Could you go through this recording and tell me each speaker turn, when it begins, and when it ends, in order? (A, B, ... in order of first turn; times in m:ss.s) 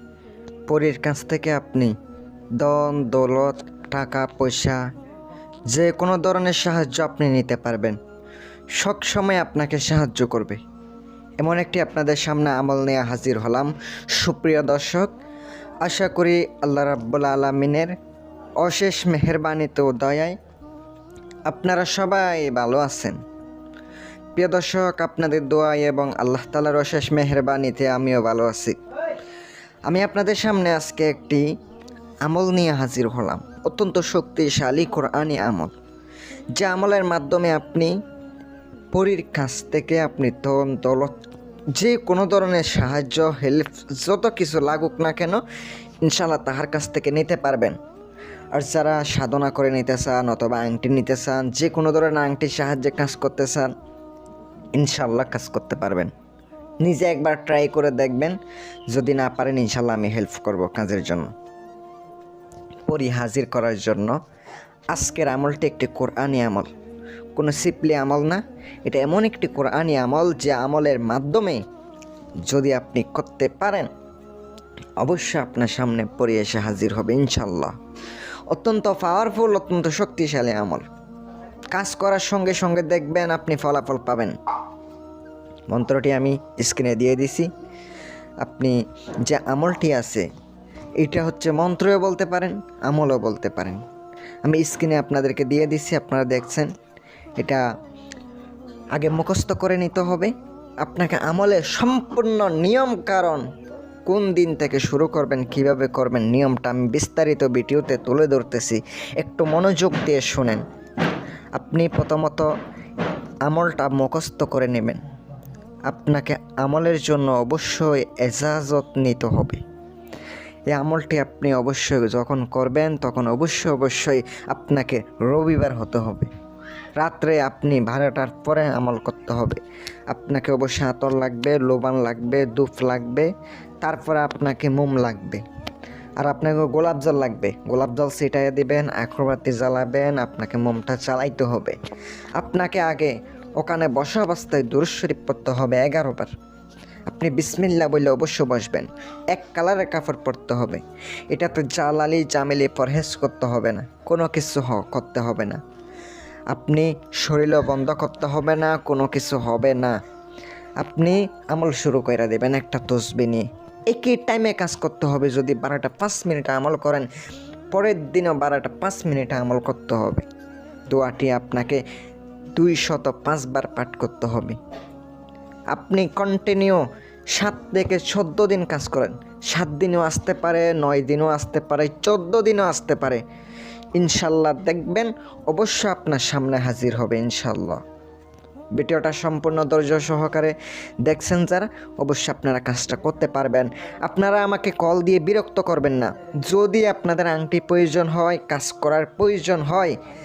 0:00.7-0:01.9 A
0:02.6-0:04.8 A
0:05.7-0:08.0 A
0:08.8-0:10.6 A
0:11.4-0:15.1 A
0:15.8-0:17.9 A
0:18.6-0:20.4 A
0:21.5-0:23.2 A
0:24.4-0:28.8 A
0:29.9-0:31.4 A
0:32.2-0:35.7 A
0:36.6-0:37.9 A
0:38.9-0:41.2 A
0:41.8-0:45.4 A
0:46.0-0:47.8 A
0:48.5-0:53.7 A
0:54.8-0:56.1 A
0:56.8-0:58.4 A
0:58.9-1:01.3 A
1:02.9-1:04.2 A
1:04.9-1:06.7 A
1:07.3-1:11.6 A
1:12.5-1:13.9 A
1:15.0-1:17.7 A
1:18.5-1:20.8 A
1:21.7-1:24.4 A
1:25.7-1:27.5 A
1:28.4-1:30.3 A
1:31.0-1:33.8 A
1:34.4-1:36.7 A
1:37.4-1:37.6 A
1:38.9-1:40.3 A
1:40.8-1:43.4 A
1:44.0-1:50.6 A
1:51.6-1:52.5 A
1:53.5-1:55.0 A
1:55.9-1:59.6 A
2:00.7-2:06.3 A
2:07.0-2:13.3 A
2:13.8-2:15.4 A
2:16.2-2:21.8 A
2:22.4-2:26.3 A
2:27.1-2:35.6 A
2:36.5-2:40.0 A
2:40.8-2:47.1 A
2:47.7-2:50.2 A
2:50.9-2:51.8 A
2:52.5-2:54.6 A
2:55.7-2:56.8 A
2:57.3-3:03.2 A
3:04.0-3:07.8 A
3:08.8-3:20.0 A